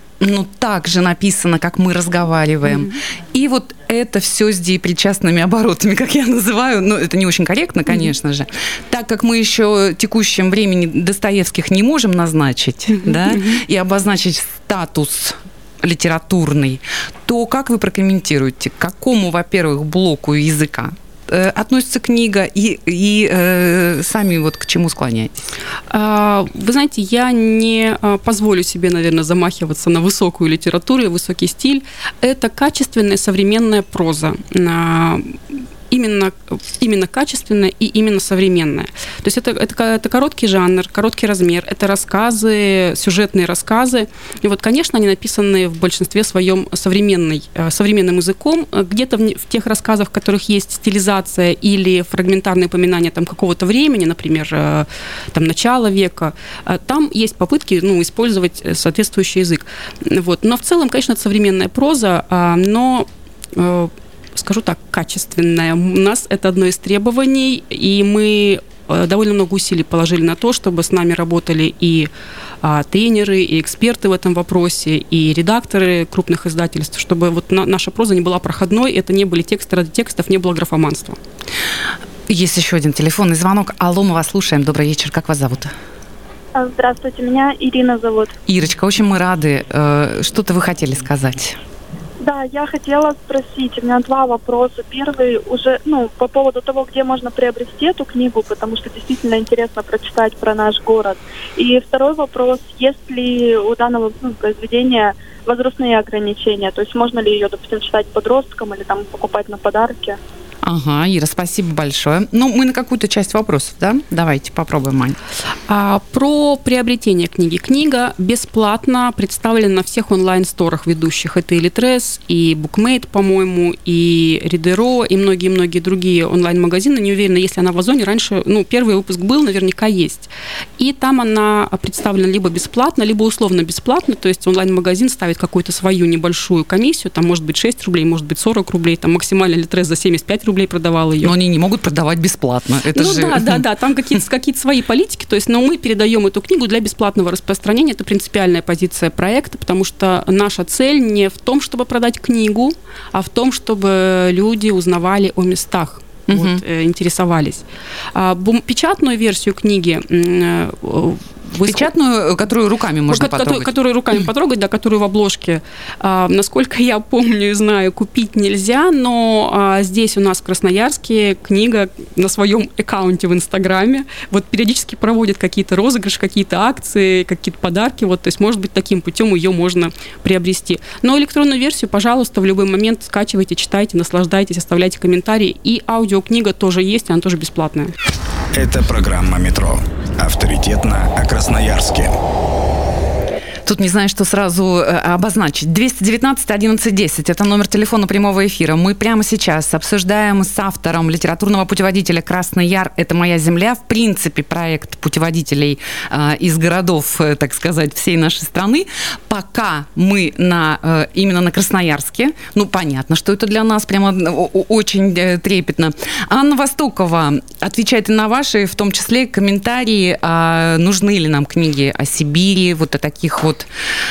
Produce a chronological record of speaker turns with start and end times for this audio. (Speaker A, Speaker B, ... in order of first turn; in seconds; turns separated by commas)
Speaker A: 0.2-25.4, Speaker B: 12.9-13.6, Speaker B: 25.9-35.4, Speaker B: 35.9-72.1, Speaker B: 72.6-81.2, Speaker A: 82.3-85.7, Speaker C: 86.5-88.3, Speaker A: 88.5-91.6, Speaker C: 92.2-110.2, Speaker A: 110.6-115.2, Speaker B: 115.7-141.3, Speaker A: 141.2-143.6, Speaker B: 142.9-161.9, Speaker A: 156.3-156.6, Speaker A: 161.6-163.7, Speaker B: 163.1-187.9, Speaker D: 188.5-192.1, Speaker A: 193.7-223.7